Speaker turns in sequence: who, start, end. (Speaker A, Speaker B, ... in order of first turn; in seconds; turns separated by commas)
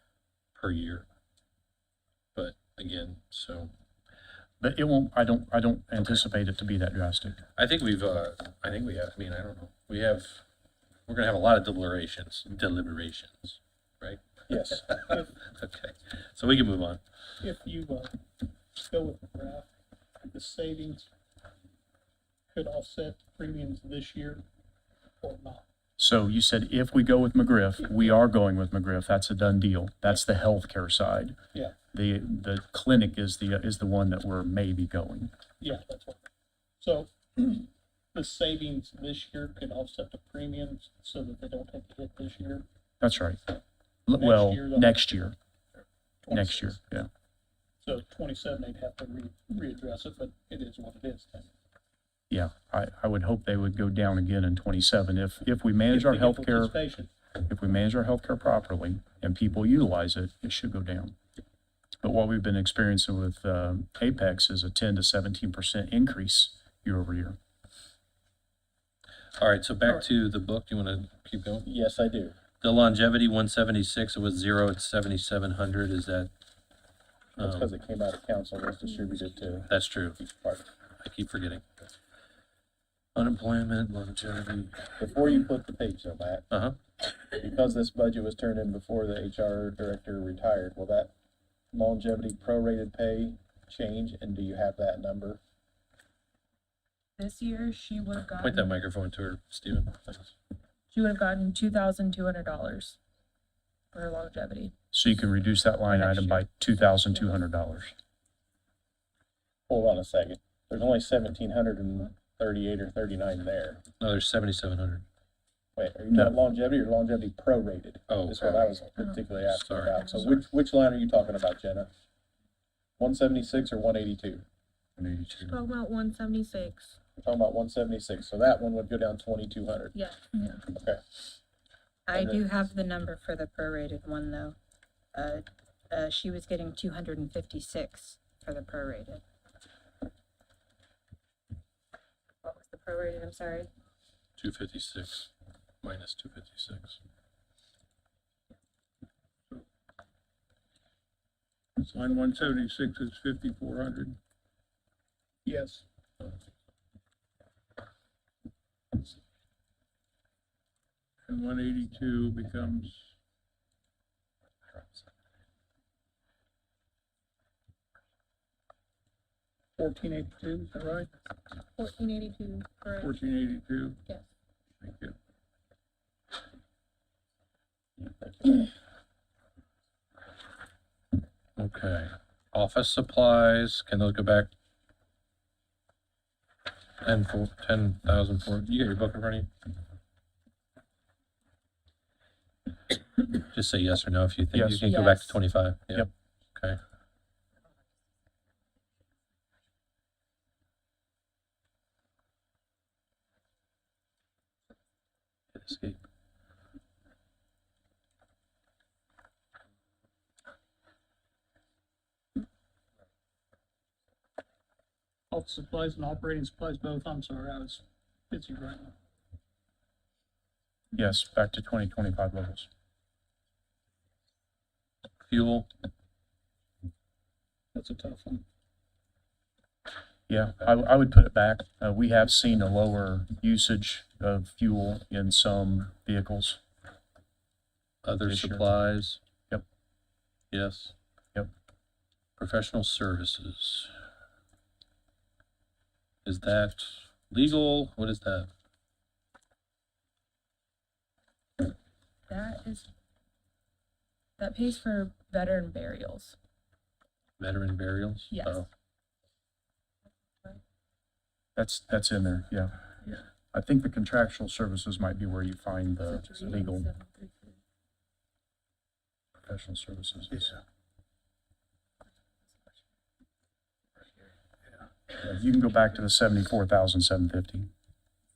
Speaker A: 0.5-1.1, Speaker A: 2.3-3.7, Speaker B: 4.6-7.4, Speaker A: 7.5-10.4, Speaker A: 11.1-14.4, Speaker C: 14.5-14.8, Speaker D: 14.7-15.3, Speaker A: 15.0-17.0, Speaker D: 17.4-18.2, Speaker D: 18.8-19.7, Speaker D: 20.3-21.1, Speaker D: 22.5-24.4, Speaker D: 25.2-25.6, Speaker B: 26.0-31.4, Speaker B: 31.9-35.3, Speaker D: 35.6-36.3, Speaker D: 36.8-42.6, Speaker B: 43.0-43.4, Speaker B: 44.1-45.4, Speaker D: 44.1-45.0, Speaker D: 46.2-46.8, Speaker B: 46.3-47.1, Speaker D: 47.8-51.5, Speaker B: 52.3-56.7, Speaker D: 55.9-57.1, Speaker B: 57.4-61.1, Speaker B: 62.0-67.4, Speaker A: 69.4-71.7, Speaker C: 71.6-72.3, Speaker A: 72.6-76.3, Speaker C: 77.4-79.7, Speaker A: 77.4-77.7, Speaker A: 79.7-80.2, Speaker C: 80.2-80.6, Speaker A: 81.0-81.6, Speaker A: 83.1-84.8, Speaker C: 85.0-86.5, Speaker A: 86.5-86.8, Speaker C: 87.3-91.1, Speaker C: 91.7-95.4, Speaker E: 97.2-98.7, Speaker A: 98.4-100.3, Speaker E: 100.9-103.0, Speaker E: 103.9-104.7, Speaker B: 104.9-107.9, Speaker E: 105.9-106.4, Speaker C: 109.7-113.8, Speaker A: 114.0-115.0, Speaker C: 115.8-121.9, Speaker A: 118.1-118.7, Speaker A: 119.5-120.0, Speaker E: 119.9-120.3, Speaker C: 123.0-124.4, Speaker E: 125.5-126.9, Speaker C: 127.2-129.9, Speaker E: 129.9-130.6, Speaker C: 130.7-131.0, Speaker F: 132.1-134.6, Speaker C: 132.1-132.4, Speaker F: 135.1-139.2, Speaker F: 142.4-143.7, Speaker A: 144.4-145.3, Speaker A: 145.8-147.0, Speaker G: 151.8-154.2, Speaker D: 155.4-155.8, Speaker G: 161.2-163.0, Speaker D: 169.8-171.1, Speaker E: 171.8-173.2, Speaker G: 173.0-174.0, Speaker G: 174.8-175.1, Speaker C: 178.0-178.7, Speaker A: 181.6-184.5, Speaker A: 187.0-189.5, Speaker A: 193.3-196.8, Speaker B: 194.5-194.8, Speaker E: 194.8-195.4, Speaker A: 205.5-206.0, Speaker D: 215.3-218.9, Speaker B: 220.9-222.7, Speaker A: 225.2-225.7, Speaker D: 227.7-228.4, Speaker B: 230.3-236.6, Speaker A: 238.0-239.2, Speaker B: 238.2-238.7, Speaker A: 240.5-240.9, Speaker A: 242.4-243.9, Speaker A: 246.2-248.5, Speaker E: 252.3-252.9, Speaker E: 254.4-256.4, Speaker A: 257.4-258.7, Speaker E: 258.3-258.6, Speaker B: 261.6-262.7, Speaker B: 263.5-266.9, Speaker E: 266.1-267.6, Speaker B: 269.4-270.6, Speaker B: 275.2-277.7